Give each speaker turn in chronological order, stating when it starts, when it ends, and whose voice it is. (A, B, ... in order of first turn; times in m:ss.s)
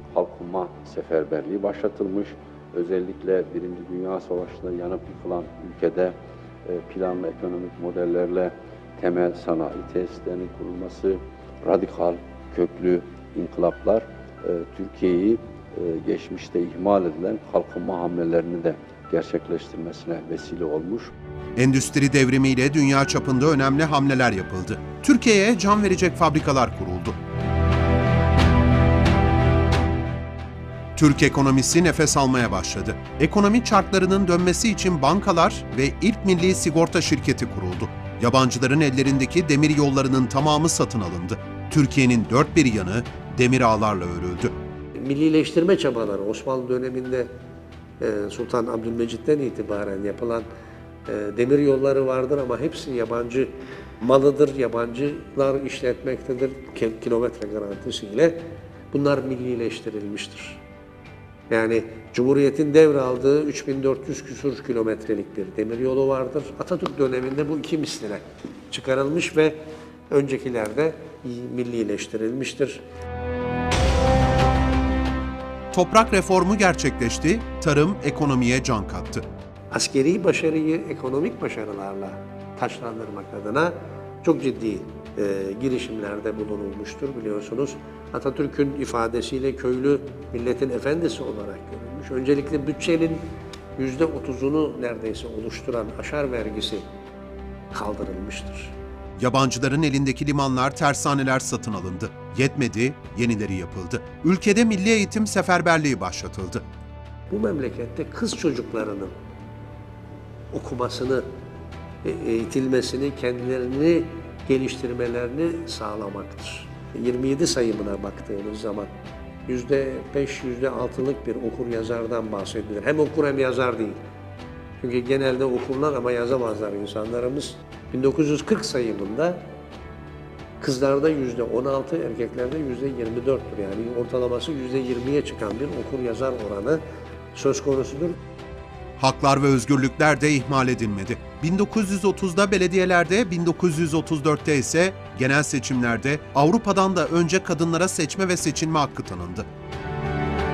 0:00.1-0:21.1 A
0:21.6-0:27.2 B
0:30.9-0:44.5 B
0:44.9-0:47.3 C
0:48.0-0:50.4 C
0:51.0-1:00.6 C
1:01.5-1:12.8 C
1:15.7-1:19.2 B
1:19.7-1:36.8 C
1:37.7-1:38.7 C
1:39.2-1:46.6 B
1:47.3-1:49.1 C
1:50.5-1:51.2 C
1:52.0-1:58.9 C
1:59.5-2:04.0 C
2:04.8-2:09.4 C
2:10.6-2:16.8 C
2:17.3-2:18.2 C
2:19.0-2:29.5 B